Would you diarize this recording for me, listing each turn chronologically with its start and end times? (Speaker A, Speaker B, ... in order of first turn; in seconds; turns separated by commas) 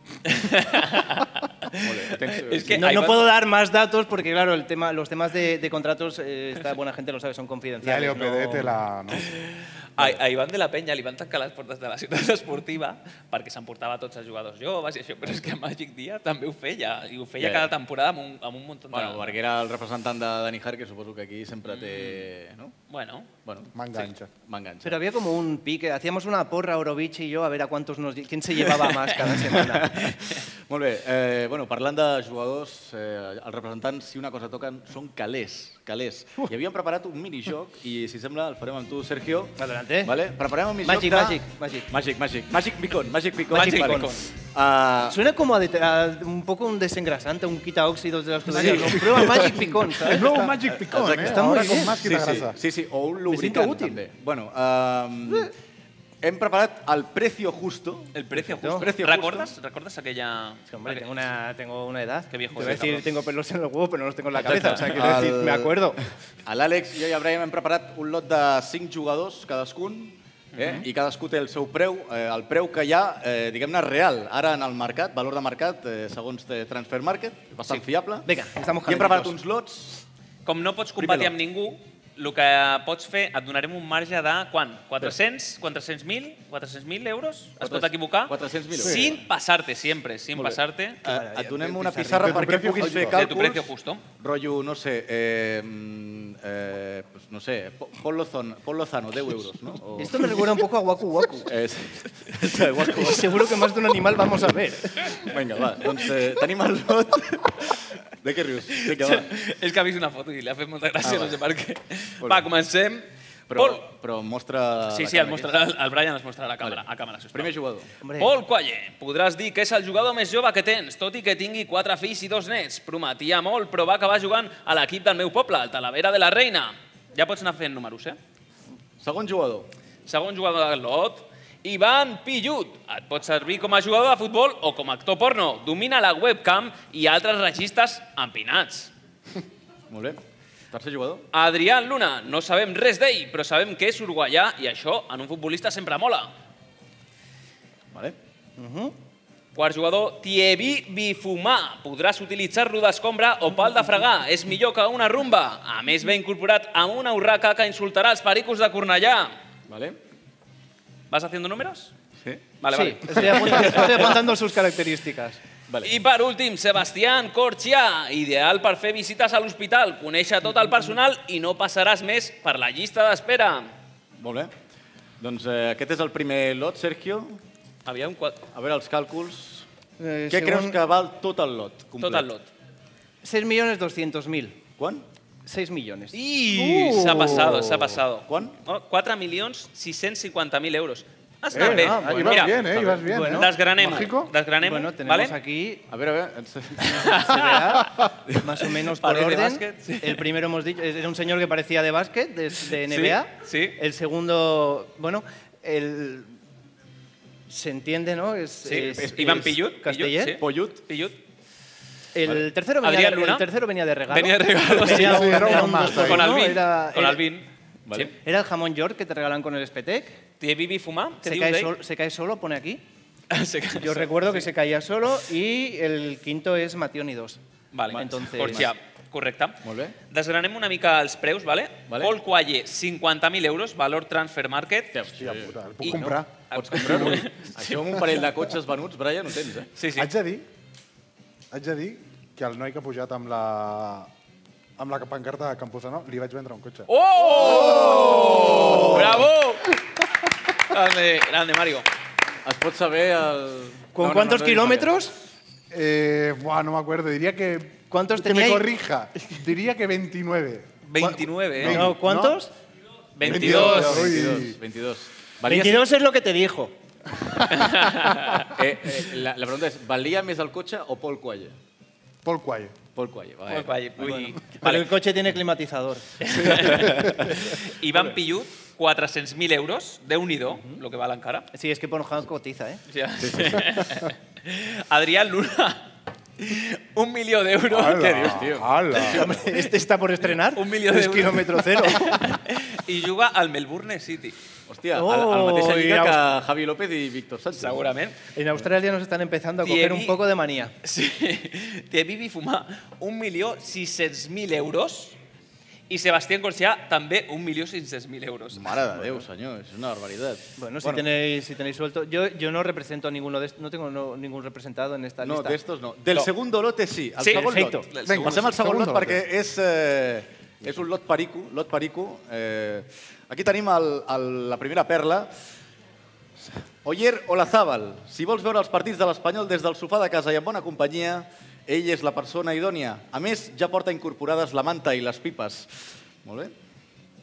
Speaker A: 0.3-1.8, Speaker B: 1.7-2.9, Speaker A: 2.3-3.3, Speaker C: 2.7-8.7, Speaker D: 7.8-9.3, Speaker A: 9.3-19.4, Speaker B: 17.4-17.7, Speaker B: 18.9-22.7, Speaker A: 21.7-22.3, Speaker A: 22.9-23.3, Speaker B: 23.4-25.0, Speaker D: 23.7-24.3, Speaker C: 24.8-29.9, Speaker B: 29.2-45.2, Speaker C: 39.6-40.1, Speaker C: 40.8-41.9, Speaker A: 43.5-44.3, Speaker C: 43.5-44.1, Speaker C: 45.1-50.5, Speaker B: 48.5-55.5, Speaker D: 48.6-49.2, Speaker D: 50.0-52.6, Speaker C: 51.2-52.0, Speaker C: 53.2-54.0, Speaker B: 56.2-59.5, Speaker A: 58.1-61.1, Speaker C: 58.6-58.9, Speaker C: 60.7-66.0, Speaker A: 62.3-63.0, Speaker B: 62.5-63.0, Speaker B: 64.4-65.9, Speaker A: 64.5-64.8, Speaker B: 66.5-78.3, Speaker A: 70.5-70.8, Speaker C: 77.7-79.3, Speaker B: 78.8-80.0, Speaker A: 80.5-91.0, Speaker B: 81.0-81.3, Speaker B: 87.6-89.2, Speaker D: 88.8-89.1, Speaker B: 90.3-100.5, Speaker C: 91.0-92.6, Speaker D: 92.1-93.2, Speaker A: 93.0-94.0, Speaker C: 100.0-101.5, Speaker B: 101.5-103.6, Speaker C: 103.0-105.0, Speaker B: 105.1-109.3, Speaker A: 108.8-113.8, Speaker B: 111.0-111.4, Speaker B: 112.2-112.5, Speaker B: 113.5-115.6, Speaker A: 114.9-117.5, Speaker B: 117.3-117.9, Speaker C: 118.0-118.3, Speaker A: 118.2-128.2, Speaker B: 129.0-129.7, Speaker A: 130.1-138.9, Speaker B: 139.9-140.2, Speaker B: 140.7-141.2, Speaker A: 141.3-146.3, Speaker C: 148.6-148.9, Speaker A: 149.5-159.3, Speaker B: 159.7-160.0, Speaker A: 161.1-161.9, Speaker A: 162.6-164.2, Speaker C: 162.7-165.4, Speaker A: 165.8-173.7, Speaker B: 174.2-174.5, Speaker B: 175.2-177.4, Speaker A: 177.8-178.4, Speaker B: 178.5-179.7, Speaker C: 180.0-180.8, Speaker B: 180.3-182.3, Speaker A: 182.0-182.5, Speaker C: 183.2-184.6, Speaker B: 184.8-185.0, Speaker C: 185.4-187.6, Speaker A: 186.1-192.6, Speaker D: 186.9-187.8, Speaker B: 188.3-188.6, Speaker D: 191.5-194.3, Speaker C: 191.6-192.3, Speaker B: 192.0-193.1, Speaker C: 193.1-193.5, Speaker A: 193.2-195.3, Speaker C: 194.6-195.9, Speaker B: 195.9-197.3, Speaker A: 196.8-197.8, Speaker C: 197.1-206.3, Speaker A: 199.0-200.2, Speaker A: 202.8-203.8, Speaker C: 207.5-210.4, Speaker A: 208.6-211.1, Speaker B: 208.9-209.5, Speaker B: 210.4-210.8, Speaker C: 212.1-217.2, Speaker A: 212.8-213.4, Speaker A: 214.1-218.1, Speaker D: 214.8-216.3, Speaker B: 217.8-218.1, Speaker C: 218.2-220.2, Speaker A: 220.4-221.7, Speaker C: 221.2-222.8, Speaker A: 223.3-224.5, Speaker C: 223.8-227.4, Speaker A: 227.7-234.9, Speaker B: 227.9-228.7, Speaker C: 227.9-228.7, Speaker B: 229.6-229.9, Speaker B: 231.9-232.1, Speaker B: 234.9-239.7, Speaker D: 235.2-237.3, Speaker A: 235.8-237.5, Speaker A: 239.8-240.1, Speaker D: 239.9-240.4, Speaker D: 241.5-244.1, Speaker D: 244.8-249.2, Speaker A: 246.9-249.8, Speaker B: 247.3-249.2, Speaker A: 250.7-251.8, Speaker B: 252.4-255.0, Speaker C: 253.9-255.1, Speaker D: 255.7-262.4, Speaker C: 257.9-258.7, Speaker A: 260.9-261.8, Speaker C: 261.6-262.5, Speaker A: 263.1-264.1, Speaker B: 263.2-265.8, Speaker D: 263.2-264.6, Speaker C: 265.4-266.7, Speaker A: 267.5-268.4, Speaker B: 268.5-271.5, Speaker D: 272.2-272.7, Speaker B: 272.9-274.7, Speaker A: 273.5-274.9, Speaker C: 274.0-276.1, Speaker A: 276.2-281.5, Speaker B: 276.3-278.1, Speaker C: 281.5-282.8, Speaker A: 282.9-285.9, Speaker B: 283.2-284.0, Speaker A: 286.4-288.5, Speaker D: 287.7-289.3, Speaker B: 287.8-289.4, Speaker C: 289.2-292.1, Speaker A: 290.5-294.4, Speaker B: 294.7-297.9, Speaker C: 294.9-296.2, Speaker A: 297.5-298.2, Speaker C: 298.3-300.7, Speaker A: 299.6-300.2, Speaker A: 300.8-305.2, Speaker A: 305.9-308.8, Speaker B: 308.5-311.1, Speaker C: 310.6-315.6, Speaker B: 315.2-325.3, Speaker A: 317.2-318.5, Speaker C: 317.3-317.9, Speaker D: 318.0-319.2, Speaker B: 326.8-335.7, Speaker B: 336.2-336.5